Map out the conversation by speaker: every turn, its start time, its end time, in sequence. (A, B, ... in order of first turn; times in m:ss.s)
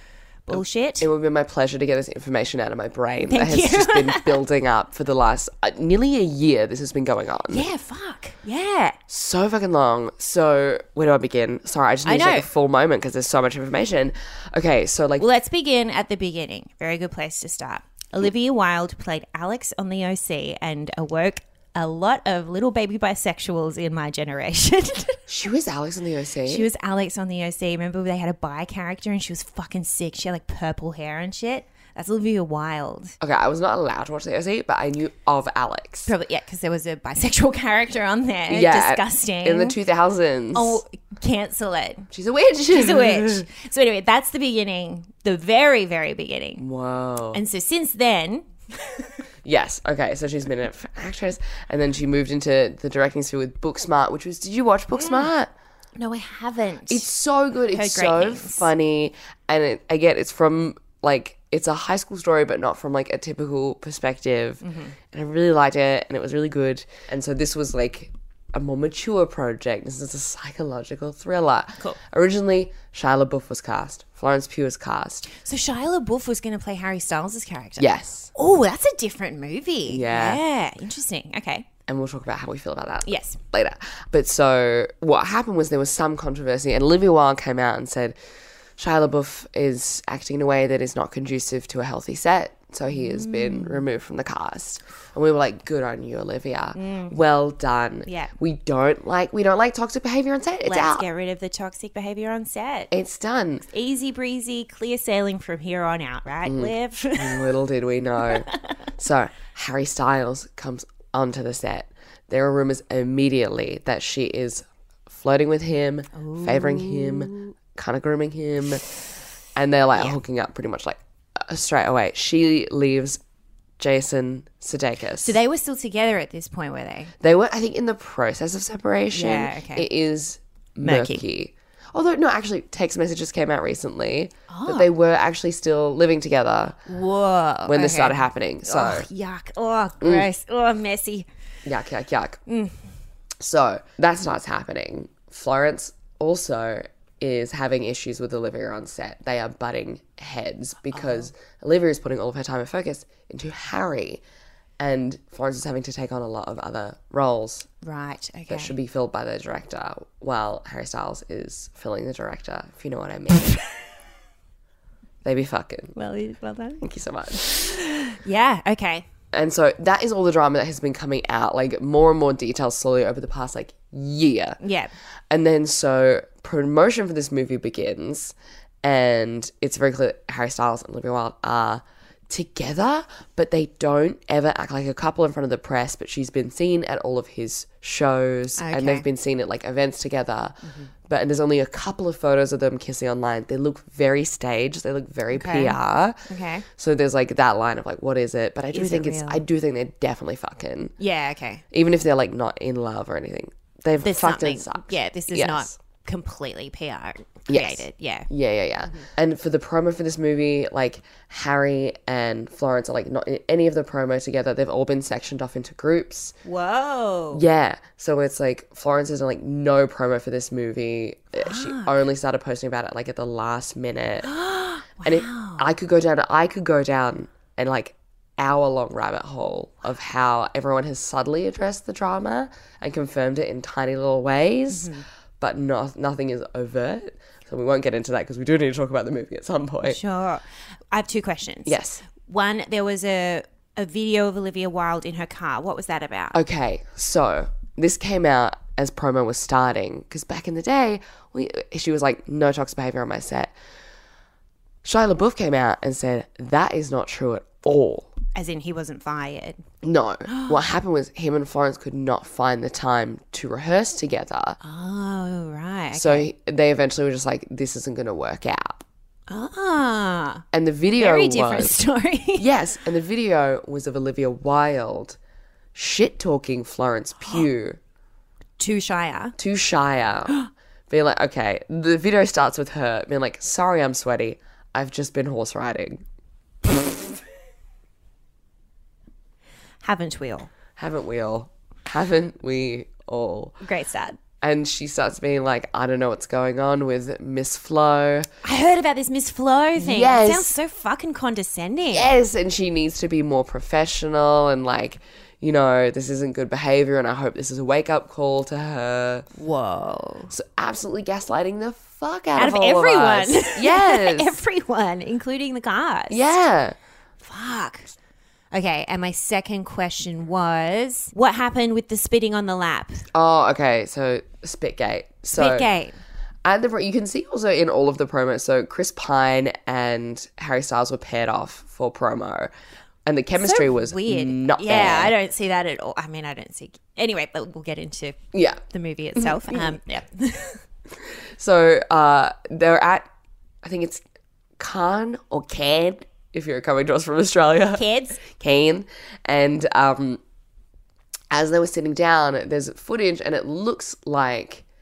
0:00.5-0:01.1 A
0:00.5-0:07.7 B
0:03.3-0:04.4 A
0:07.5-0:09.0 A
0:09.1-0:15.3 B
0:12.0-0:12.5 A
0:15.2-0:25.2 A
0:25.3-0:26.7 B
0:26.5-0:33.1 A
0:33.2-0:36.1 B
0:36.0-0:39.8 A
0:38.5-0:40.8 B
0:40.5-0:42.1 A
0:42.1-0:43.4 B
0:42.7-0:46.6 A
0:46.6-0:47.4 B
0:47.3-0:49.1 A
0:49.4-0:55.5 B
0:54.9-0:55.3 A
0:56.0-0:57.0 A
0:56.9-1:15.3 B
0:57.7-0:58.7 A
1:04.6-1:04.9 A
1:15.3-1:21.7 A
1:17.8-1:18.3 B
1:19.8-1:20.4 B
1:21.9-1:28.2 B
1:23.0-1:23.4 A
1:28.8-1:41.0 B
1:32.9-1:33.8 A
1:36.7-1:37.2 A
1:38.0-1:38.3 A
1:40.6-1:42.9 A
1:42.9-1:43.6 B
1:43.7-1:47.5 A
1:46.4-1:58.8 B
1:56.1-1:57.5 A
1:59.5-2:03.2 B
2:03.8-2:05.4 B
2:05.2-2:07.1 A
2:07.2-2:16.8 B
2:09.1-2:09.9 A
2:10.8-2:11.2 A
2:14.5-2:14.9 A
2:16.9-2:21.3 A
2:17.6-2:19.1 B
2:20.0-2:20.3 B
2:21.6-2:22.4 B
2:22.5-2:22.8 A
2:23.4-2:34.2 B
2:30.9-2:31.2 A
2:34.8-2:37.7 B
2:37.8-2:38.7 A
2:38.5-2:43.5 B
2:45.2-2:45.9 B
2:45.9-2:46.8 A
2:46.8-2:47.6 B
2:47.4-2:49.1 A
2:49.3-2:54.6 B
2:54.6-2:54.9 A
2:55.3-3:20.9 B
3:08.6-3:09.0 A
3:15.3-3:15.8 A
3:16.3-3:16.6 A
3:18.7-3:19.4 A
3:21.0-3:21.6 A
3:21.7-3:25.7 B
3:24.0-3:28.3 A
3:27.5-3:36.4 B
3:36.4-3:37.4 A
3:37.3-3:44.3 B
3:41.4-3:41.9 A
3:44.2-3:45.6 A
3:45.0-4:00.0 B
3:54.7-3:55.0 A
3:59.8-4:06.4 A
4:01.6-4:02.0 B
4:06.3-4:13.5 B
4:14.8-4:18.1 B
4:18.3-4:19.6 A
4:19.8-4:24.6 B
4:20.3-4:20.6 A
4:24.6-4:26.3 A
4:25.9-4:28.8 B
4:29.3-4:30.4 A
4:30.5-4:31.8 B
4:31.0-4:32.4 A
4:32.3-4:35.2 B
4:35.7-4:37.8 B
4:38.6-4:39.4 A
4:39.4-4:40.4 B
4:40.9-4:46.0 B
4:46.6-4:47.1 B
4:49.8-4:50.5 A
4:50.8-4:53.6 B
4:53.6-4:54.2 A
4:54.4-4:58.3 B
4:58.4-5:02.2 A
4:59.8-5:00.6 B
5:01.9-5:09.2 B
5:09.3-5:10.3 A
5:10.3-5:14.3 B
5:12.4-5:16.4 A
5:16.1-5:16.8 B
5:17.2-5:17.9 A
5:18.5-5:23.0 A
5:23.1-5:25.7 B
5:25.3-5:26.0 A
5:26.4-5:32.5 B
5:33.0-5:35.1 B
5:33.4-5:40.6 A
5:38.3-5:38.6 B
5:39.2-5:39.8 B
5:41.4-5:43.1 B
5:43.6-5:44.0 B
5:44.6-5:50.2 B
5:47.7-5:48.2 A
5:51.3-5:54.6 B